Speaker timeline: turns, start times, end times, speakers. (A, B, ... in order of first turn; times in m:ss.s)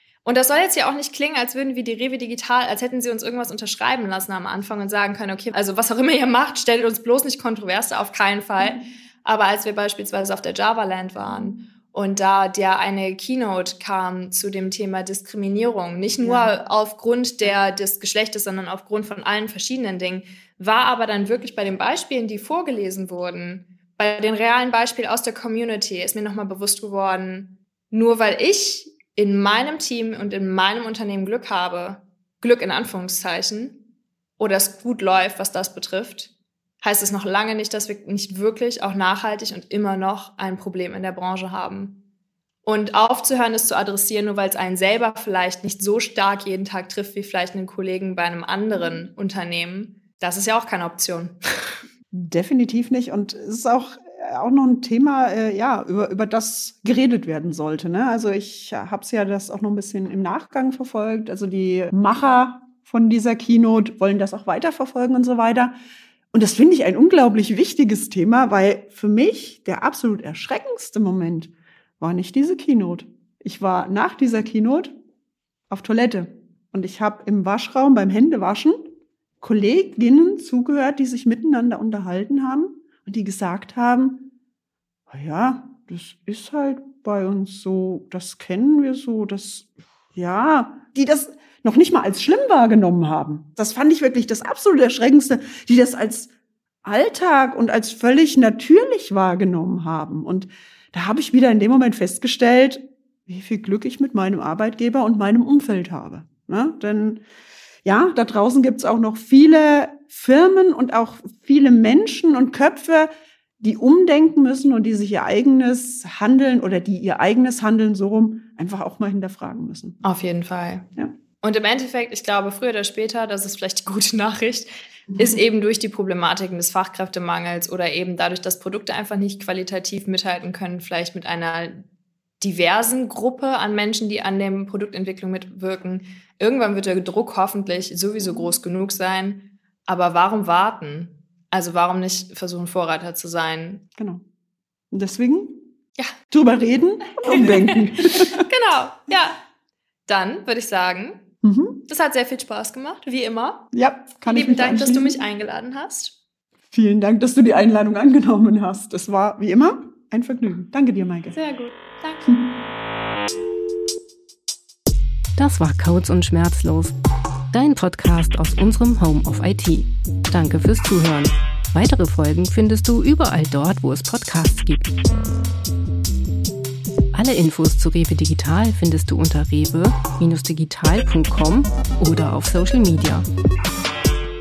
0:00.2-0:33.8 A
0:16.2-0:16.6 B
0:34.4-0:36.3 A
0:36.8-0:42.0 A
0:42.6-0:51.4 A
0:52.1-1:05.7 B
1:06.3-1:14.9 B
1:15.7-1:18.9 B
1:19.4-1:24.3 B
1:25.1-1:36.3 B
1:36.8-1:47.2 B
1:47.8-2:00.0 B
2:00.0-2:00.9 A
2:01.4-2:11.8 A
2:12.4-2:23.8 A
2:24.0-2:24.2 B
2:24.9-2:25.6 B
2:26.3-2:28.5 B
2:27.2-2:29.4 A
2:30.1-2:31.2 A
2:31.4-2:31.8 B
2:31.9-2:33.7 A
2:33.7-2:35.2 B
2:34.2-2:36.1 A
2:36.7-2:41.4 B
2:41.3-2:42.4 A
2:45.4-2:46.9 C
2:47.5-2:54.9 C
2:57.1-3:03.2 C